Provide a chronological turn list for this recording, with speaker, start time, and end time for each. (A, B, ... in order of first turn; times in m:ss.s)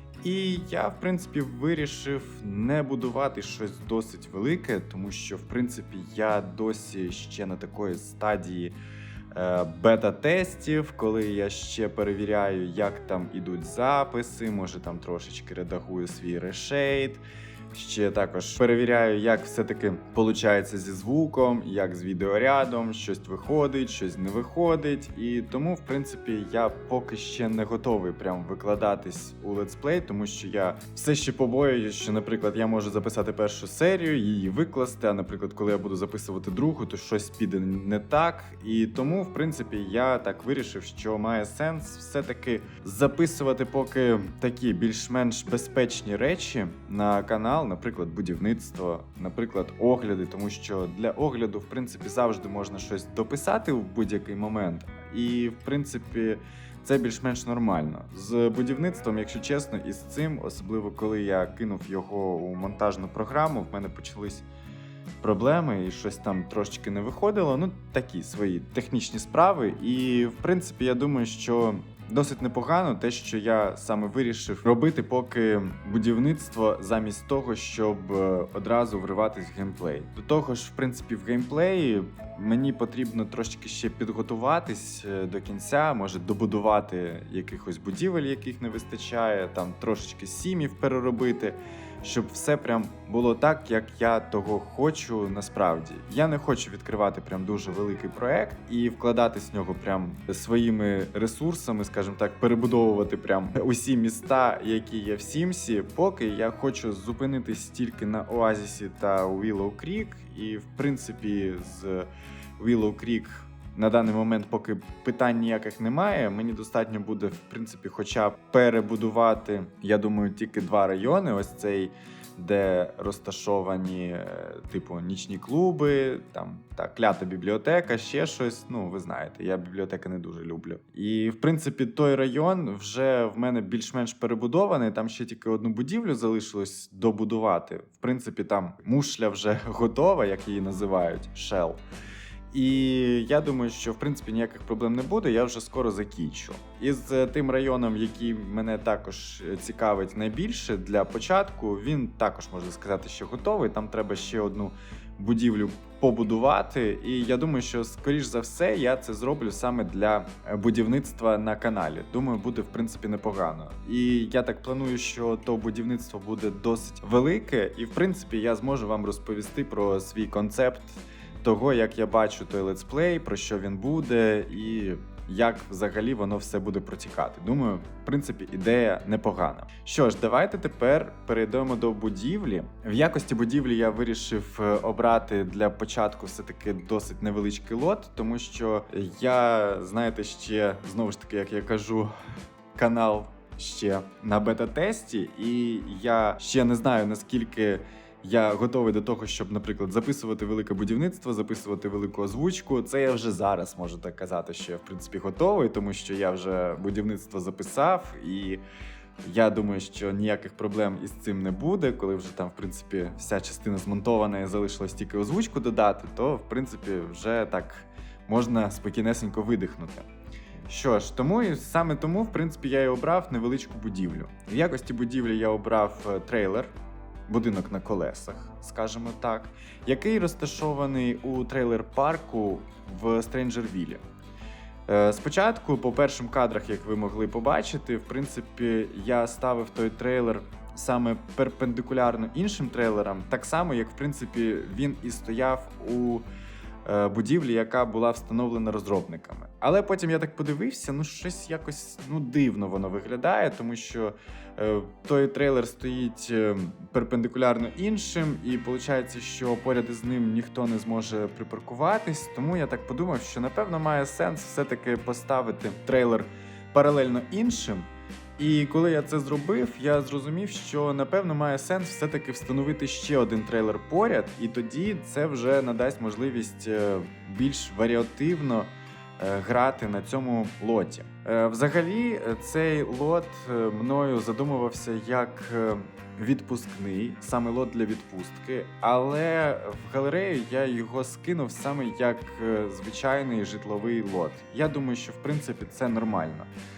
0:00.2-0:08.7 A
0:09.3-1:04.4 A
1:05.2-2:21.8 A
2:22.5-3:12.1 A
3:12.7-3:28.6 A
3:29.2-3:40.1 A
3:40.7-3:46.7 A
3:47.3-3:54.0 A
3:54.9-4:06.2 A
4:06.8-4:56.5 A